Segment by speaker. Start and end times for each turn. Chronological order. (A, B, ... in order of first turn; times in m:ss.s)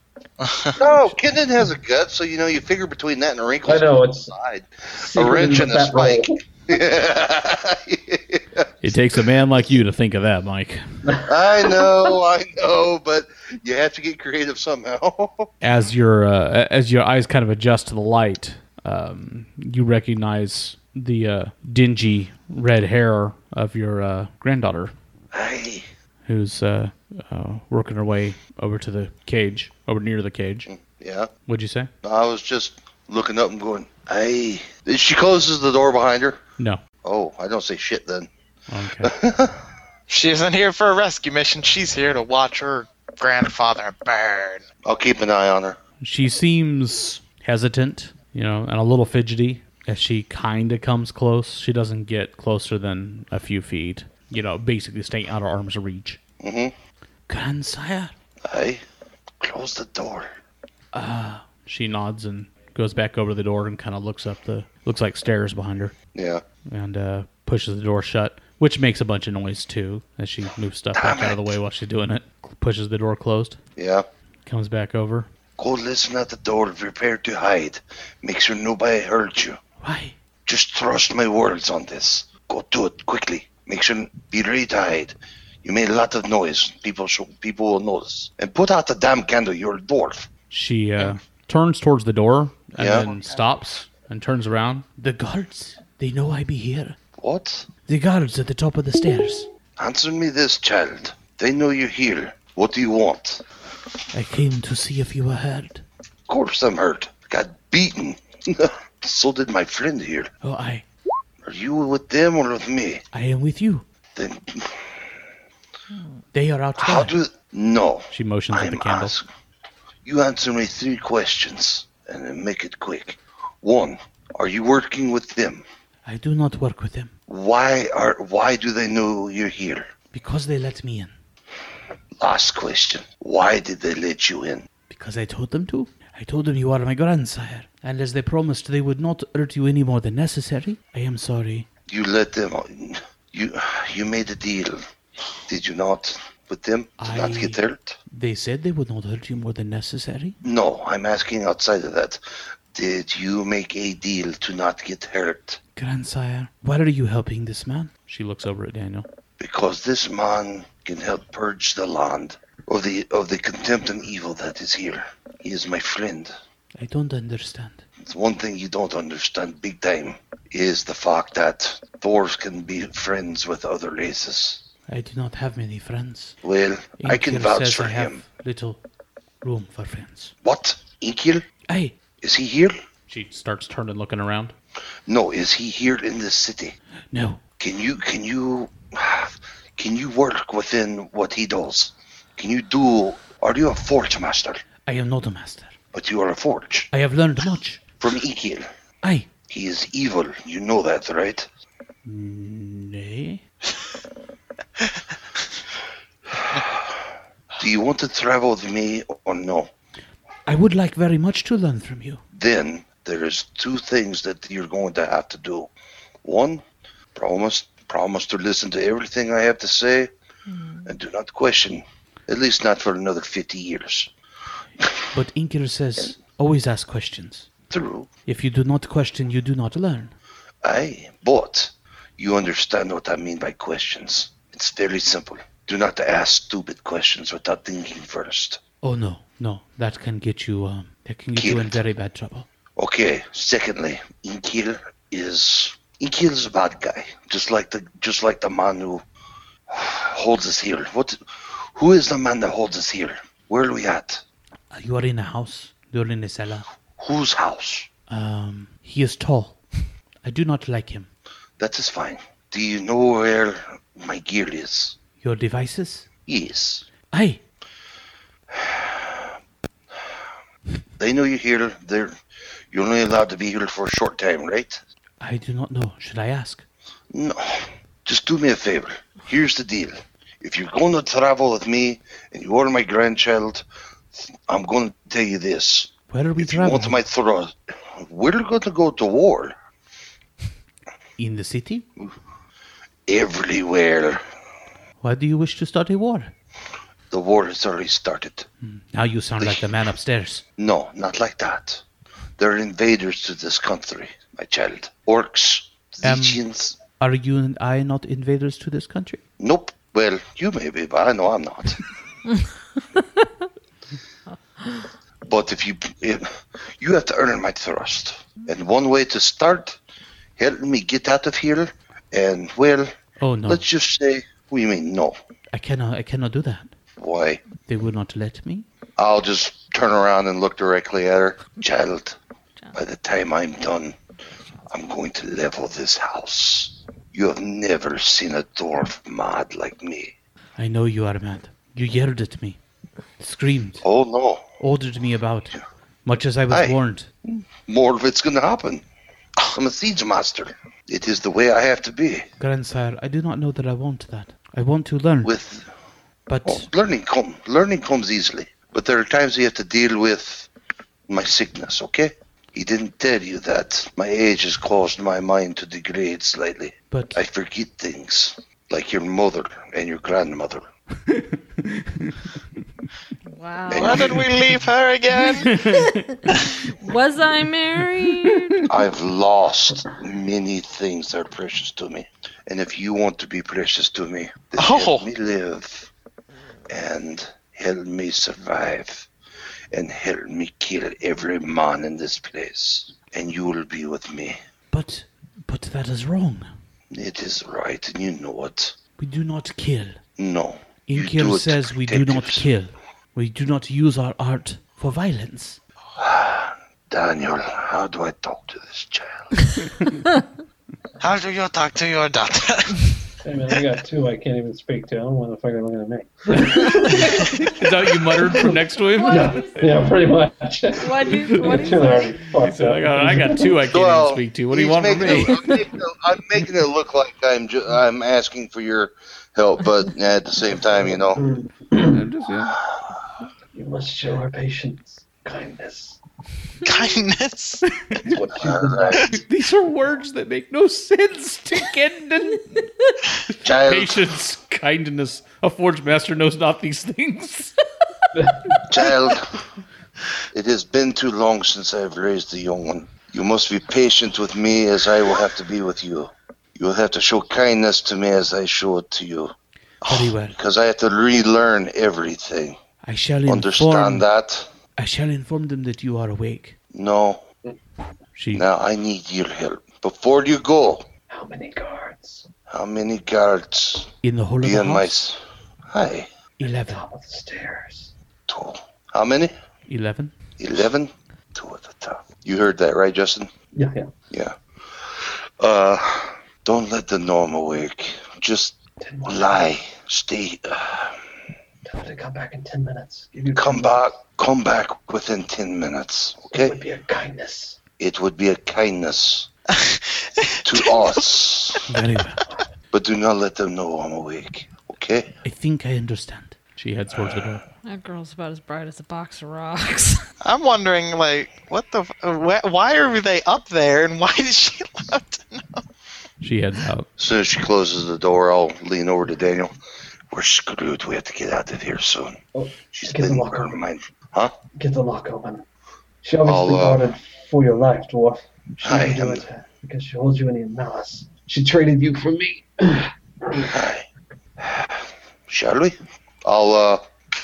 0:00.4-0:00.8 A
0:00.8-0:08.7 B
0:03.7-0:04.3 C
0:05.0-0:06.3 C
0:08.8-0:10.8 D
0:11.1-0:11.9 C
0:11.2-0:15.5 B
0:15.6-0:24.9 D
0:25.3-0:25.9 B
0:26.3-0:30.7 D
0:30.7-0:31.3 B
0:31.5-0:31.9 D
0:32.0-0:36.4 B
0:37.0-0:38.3 B
0:38.7-0:39.1 D
0:39.0-0:39.6 B
0:40.1-0:44.6 A
0:44.8-0:45.8 B
0:46.0-0:56.2 D
0:56.4-0:56.7 B
0:57.3-0:58.1 D
0:58.4-0:58.8 B
0:59.4-1:00.3 B
1:00.9-1:05.9 D
1:06.1-1:06.4 B
1:06.7-1:13.6 D
1:10.9-1:11.6 B
1:13.8-1:14.0 B
1:14.4-1:15.3 D
1:15.6-1:19.6 B
1:19.8-1:20.2 D
1:20.4-1:30.3 B
1:30.5-1:37.0 D
1:32.8-1:33.1 B
1:37.2-1:37.7 B
1:37.9-1:39.5 D
1:39.8-1:43.4 B
1:44.1-1:45.8 D
1:46.3-1:50.3 B
1:50.4-1:50.8 D
1:51.4-1:53.0 B
1:53.1-1:53.8 D
1:54.1-1:55.2 B
1:56.3-1:57.2 D
1:56.8-1:59.2 B
1:58.1-1:59.1 D
2:00.0-2:05.6 B
2:06.0-2:07.1 D
2:07.3-2:09.9 B
2:10.1-2:11.1 D
2:12.2-2:14.7 B
2:14.9-2:21.7 D
2:21.9-2:24.8 B
2:25.5-2:28.0 B
2:27.0-2:30.4 D
2:30.4-2:32.2 B
2:32.7-2:35.6 B
2:35.8-2:39.0 D
2:39.4-2:46.3 B
2:46.8-2:47.8 D
2:48.0-2:54.6 B
2:54.9-2:56.4 D
2:56.4-2:58.2 B
2:57.0-2:58.8 D
2:59.4-3:00.3 D
3:00.4-3:01.4 B
3:01.7-3:02.0 D
3:02.2-3:02.7 B
3:03.1-3:04.6 D
3:05.1-3:06.8 B
3:07.1-3:07.4 D
3:07.6-3:14.6 B
3:14.9-3:15.8 D
3:15.9-3:16.9 B
3:16.9-3:17.8 D
3:18.0-3:18.7 B
3:19.0-3:19.3 D
3:19.5-3:21.5 B
3:22.0-3:23.4 D
3:26.6-3:26.9 B
3:27.6-3:29.7 B
3:30.5-3:32.2 D
3:32.3-3:35.7 B
3:36.2-3:36.6 B
3:37.1-3:40.1 B
3:40.5-3:40.9 E
3:40.8-3:44.1 B
3:45.1-3:47.5 D
3:47.7-3:48.1 B
3:48.3-3:50.1 D
3:50.6-3:58.6 B
3:58.8-4:02.5 D
4:01.4-4:01.8 B
4:02.8-4:09.0 B
4:09.7-4:14.2 B
4:14.7-4:16.7 D
4:17.0-4:17.9 B
4:18.1-4:19.6 D
4:20.2-4:21.1 D
4:21.6-4:25.0 B
4:25.2-4:26.0 D
4:26.3-4:26.9 B
4:27.1-4:27.4 D
4:28.5-4:29.3 B
4:31.0-4:32.1 B
4:32.7-4:34.8 B
4:35.2-4:36.6 D
4:37.1-4:49.6 B
4:46.1-4:47.0 D
4:51.2-4:51.9 D
4:53.1-4:54.2 B
4:55.0-4:56.3 D
4:57.1-4:58.5 B
4:58.6-5:00.4 D
5:00.6-5:01.8 B
5:02.4-5:06.8 B
5:06.0-5:06.4 D
5:07.0-5:09.2 D
5:09.4-5:11.8 B
5:14.6-5:14.9 E
5:15.2-5:19.8 B
5:20.4-5:22.9 B
5:23.2-5:23.6 D
5:23.5-5:25.2 B
5:25.5-5:26.7 D
5:27.0-5:27.4 B
5:27.6-5:28.6 D
5:29.0-5:32.2 B
5:32.7-5:34.0 B
5:34.7-5:40.1 B
5:40.6-5:42.6 D
5:43.2-5:43.8 D
5:43.8-5:44.4 B
5:44.6-5:47.1 D
5:46.5-5:48.8 B
5:49.5-5:52.3 B
5:52.4-5:55.3 D
5:55.2-5:55.7 B
5:56.3-5:56.7 D
5:56.4-6:00.5 B
6:01.1-6:10.7 B
6:06.9-6:07.2 D
6:11.1-6:12.3 D
6:13.3-6:14.1 E
6:13.7-6:14.3 B
6:13.7-6:15.6 A
6:15.3-6:16.3 D
6:15.5-6:18.7 E
6:18.7-6:25.9 B
6:24.6-6:25.1 A
6:26.7-6:29.1 B
6:29.7-6:34.4 B
6:34.7-6:36.5 D
6:36.9-6:38.8 B
6:39.0-6:40.0 D
6:40.2-6:42.5 B
6:40.9-6:45.6 D
6:46.0-6:49.3 B
6:51.0-6:53.0 A
6:53.2-6:57.4 C
6:56.8-6:59.6 D
6:58.3-6:58.5 C
6:59.0-6:59.6 E
6:59.1-7:03.4 C
7:00.7-7:02.2 E
7:01.3-7:01.6 D
7:02.2-7:05.5 D
7:03.7-7:11.2 B
7:10.9-7:12.0 C
7:11.8-7:12.6 D
7:13.5-7:16.0 C
7:16.6-7:17.6 A
7:17.6-7:18.1 D
7:18.0-7:19.1 B
7:18.3-7:19.1 C
7:19.1-7:22.7 D
7:23.3-7:27.6 D
7:23.4-7:24.1 B
7:28.6-7:29.3 B
7:30.3-7:39.3 B
7:39.9-7:40.4 D
7:40.3-7:42.6 B
7:42.8-7:44.0 D
7:43.3-7:44.5 B
7:44.8-7:46.6 D
7:46.7-7:47.2 B
7:48.1-7:48.4 D
7:48.3-7:50.9 B
7:51.1-7:52.3 C
7:52.5-7:55.2 B
7:54.0-7:55.0 D
7:55.7-7:56.1 B
7:56.4-7:56.8 D
7:56.6-7:57.9 C
7:58.3-7:59.3 B
7:59.7-8:00.1 D
8:00.4-8:03.3 B
8:03.6-8:03.9 C
8:04.1-8:11.0 B
8:08.8-8:09.4 C
8:11.6-8:13.9 C
8:13.3-8:16.6 B
8:16.3-8:17.6 C
8:17.8-8:19.3 B
8:19.5-8:21.0 A
8:20.4-8:21.7 B
8:21.7-8:22.2 D
8:22.7-8:25.1 B
8:25.2-8:27.4 D
8:27.6-8:30.0 E
8:30.2-8:35.6 A
8:36.2-8:36.9 D
8:37.0-8:39.5 B
8:40.1-8:42.2 B
8:42.3-8:43.6 C
8:42.7-8:44.3 B
8:44.6-8:45.4 C
8:46.0-8:53.5 C
8:46.2-8:46.8 B
8:48.6-8:49.2 B
8:53.5-8:53.9 B
8:54.4-8:56.8 B